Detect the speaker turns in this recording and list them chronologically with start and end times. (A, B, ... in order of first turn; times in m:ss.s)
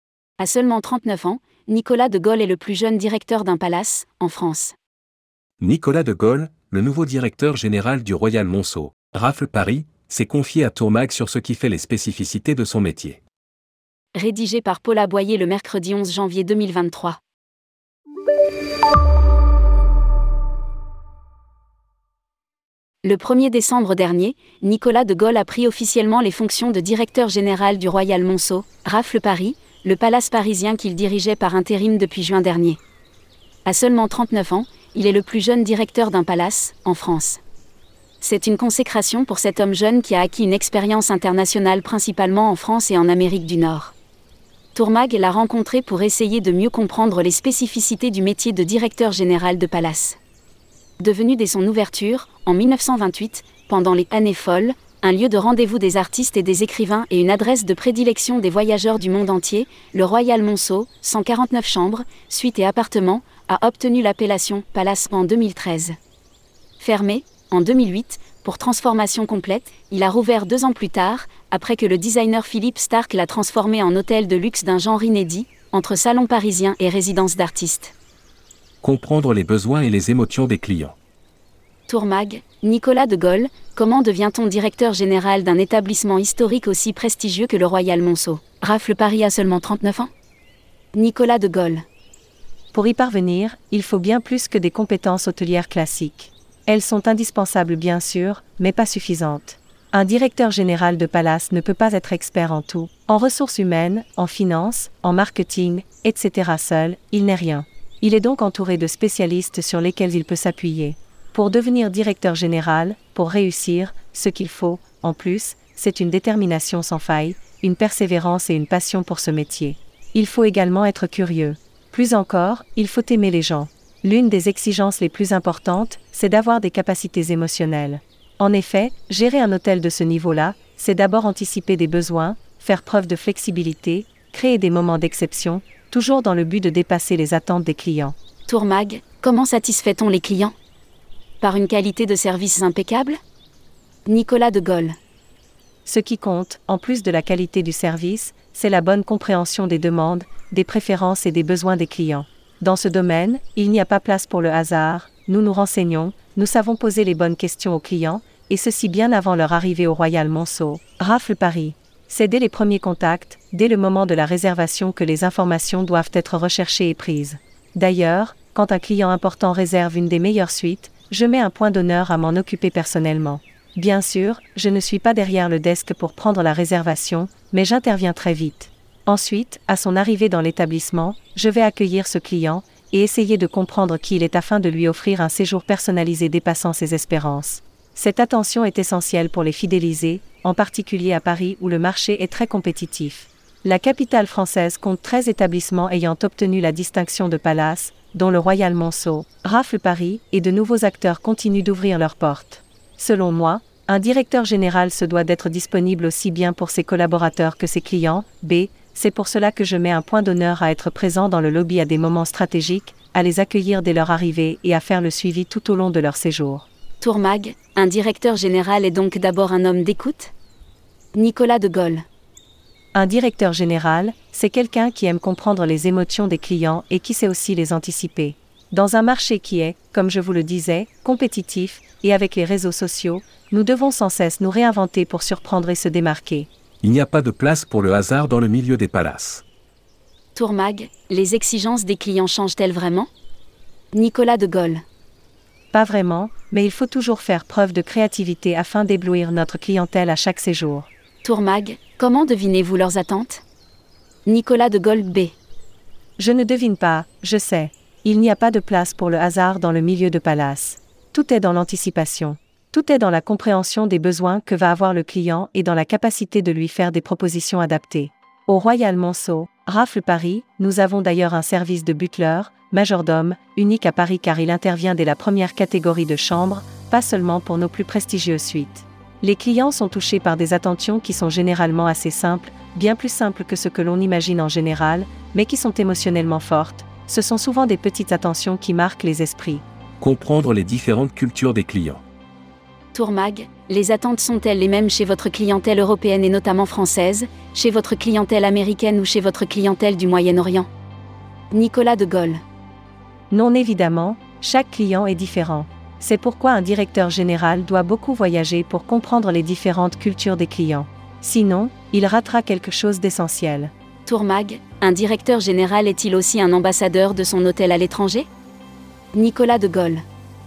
0:00.4-0:04.8 A
0:05.6-0:13.2 B
0:14.2-0:17.2 A
0:23.0-0:32.8 A
0:33.6-0:37.4 A
0:38.2-0:44.0 A
0:44.8-0:50.2 A
0:51.0-1:06.0 A
1:06.8-1:17.9 A
1:18.8-1:21.0 B
1:21.9-1:30.1 A
1:31.0-1:31.8 A
1:32.7-2:18.2 C
2:18.5-2:20.6 A
2:21.4-2:23.2 A
2:24.1-2:25.0 A
2:25.9-3:36.7 C
3:37.0-3:40.3 A
3:41.2-3:42.0 A
3:42.9-3:56.5 C
3:56.8-3:59.4 B
4:00.4-4:03.1 A
4:03.9-4:04.8 A
4:05.7-4:10.9 C
4:11.2-4:13.4 A
4:14.3-4:15.4 A
4:16.2-4:49.6 C
4:50.0-4:52.0 B
4:52.9-5:00.7 A
5:01.5-5:02.4 A
5:03.3-5:13.7 C
5:14.1-5:18.3 A
5:19.1-5:20.0 A